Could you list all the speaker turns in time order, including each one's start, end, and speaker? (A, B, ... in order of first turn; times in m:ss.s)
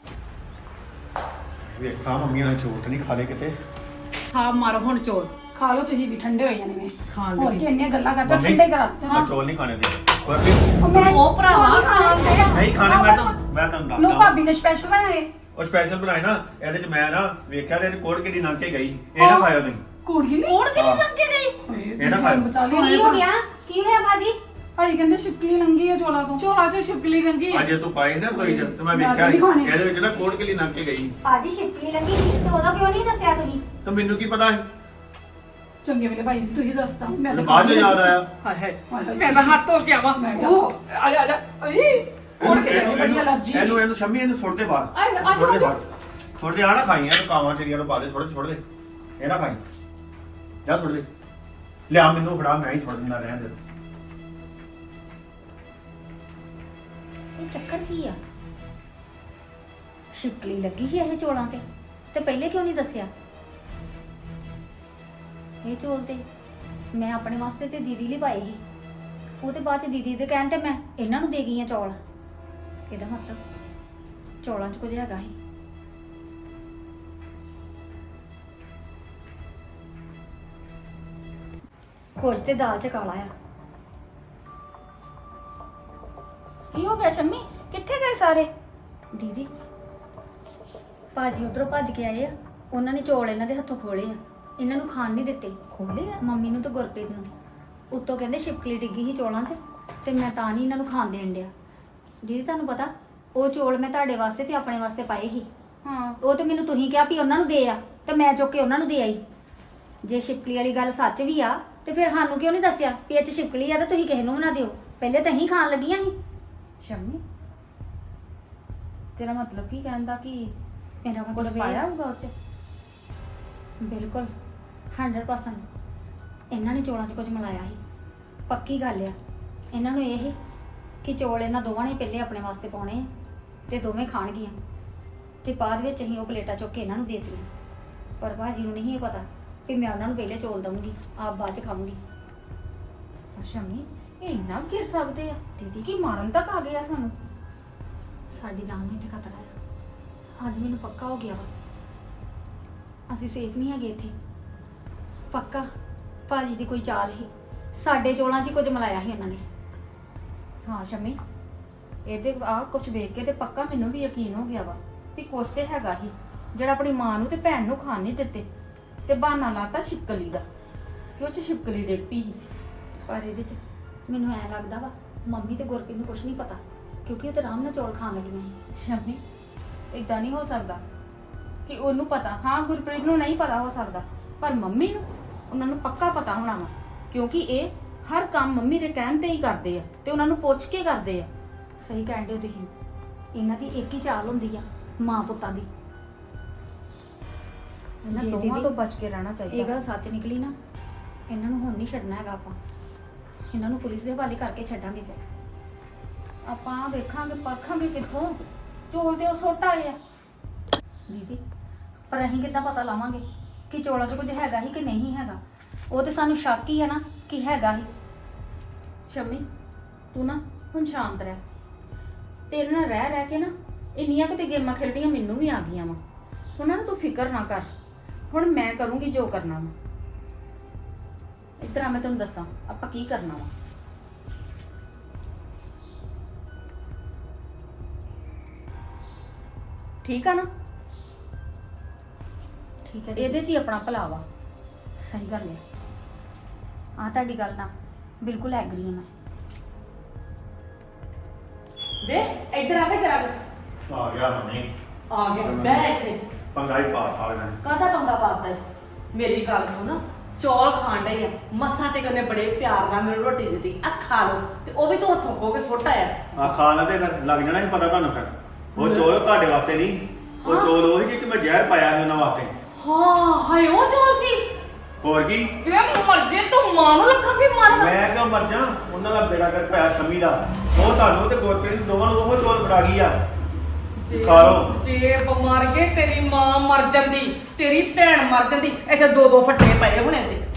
0:01.7-0:03.6 A
0:04.3-0:05.3 B
0:05.5-0:09.3 C
0:07.1-0:07.7 B
0:08.2-0:10.7 A
0:10.8-0:13.3 C
0:10.9-0:12.5 B
0:12.5-0:14.4 A
0:14.0-0:15.3 C
0:15.5-0:19.8 A
0:19.2-0:19.5 C
0:20.0-0:20.6 C
0:20.4-0:21.6 B
0:20.7-0:21.1 A
0:21.6-0:23.2 C
0:22.0-0:22.4 A
0:22.7-0:24.4 D
0:24.8-0:26.4 C
0:26.4-0:27.7 B
0:27.5-0:31.1 A
0:28.3-0:29.8 C
0:31.2-0:33.6 D
0:33.8-0:34.6 A
0:35.8-0:38.2 C
0:37.3-0:38.3 A
0:38.4-0:43.0 B
0:38.9-0:39.6 C
0:40.1-0:40.7 C
0:42.4-0:43.8 C
0:42.4-0:45.8 A
0:44.9-0:45.8 B
0:46.4-0:48.6 A
0:49.2-0:49.6 A
0:50.6-0:51.1 A
0:51.9-0:53.6 A
0:57.4-0:58.2 D
1:00.1-1:03.1 D
1:05.6-1:06.2 D
1:06.9-1:08.6 D
1:09.4-1:12.0 D
1:12.9-1:13.4 D
1:14.4-1:15.3 D
1:22.2-1:23.3 D
1:26.7-1:28.5 E
1:29.1-1:29.5 D
1:31.1-1:37.3 D
1:35.7-1:36.1 E
1:37.9-1:41.5 D
1:42.2-1:45.5 D
1:45.8-1:46.2 E
1:46.2-1:49.2 D
1:50.0-1:56.1 D
1:56.8-1:57.2 E
1:59.2-2:00.5 E
2:01.0-2:01.8 D
2:01.3-2:02.3 E
2:03.8-2:04.3 D
2:04.9-2:05.6 D
2:06.5-2:07.8 D
2:08.5-2:09.2 D
2:09.7-2:10.4 D
2:11.0-2:13.1 D
2:13.7-2:14.6 D
2:15.4-2:17.5 D
2:18.2-2:22.0 D
2:23.4-2:27.1 E
2:28.3-2:29.5 D
2:30.4-2:31.5 D
2:33.1-2:34.1 D
2:35.3-2:35.7 D
2:36.3-2:39.4 D
2:40.6-2:41.2 E
2:42.0-2:48.4 E
2:49.1-2:50.4 E
2:51.2-2:52.4 E
2:53.1-2:58.6 D
2:58.7-2:59.2 E
2:59.9-3:00.8 E
3:01.6-3:11.3 E
3:11.8-3:12.7 D
3:13.3-3:15.7 D
3:18.0-3:19.8 E
3:18.0-3:18.7 D
3:19.5-3:20.5 D
3:21.3-3:22.6 D
3:23.5-3:25.2 D
3:26.4-3:28.4 E
3:28.9-3:30.0 E
3:31.1-3:31.4 D
3:32.1-3:35.4 D
3:35.9-3:37.9 D
3:39.1-3:39.4 E
3:40.1-3:41.4 E
3:42.5-3:46.0 E
3:46.6-3:47.7 E
3:48.3-3:49.7 E
3:51.6-3:53.5 E
4:00.0-4:00.5 E
4:02.8-4:03.4 D
4:03.2-4:04.2 E
4:05.0-4:05.6 D
4:07.0-4:07.7 D
4:08.2-4:09.1 D
4:12.0-4:13.3 B
4:13.9-4:14.7 A
4:15.1-4:16.2 B
4:15.4-4:15.9 A
4:16.5-4:17.6 A
4:17.6-4:18.6 B
4:19.1-4:26.5 B
4:26.3-4:32.5 A
4:28.8-4:29.1 B
4:30.4-4:30.7 B
4:32.7-4:34.4 B
4:35.0-4:35.5 A
4:35.6-4:38.0 B
4:37.6-4:43.2 A
4:44.0-4:50.4 B
4:44.1-4:44.8 A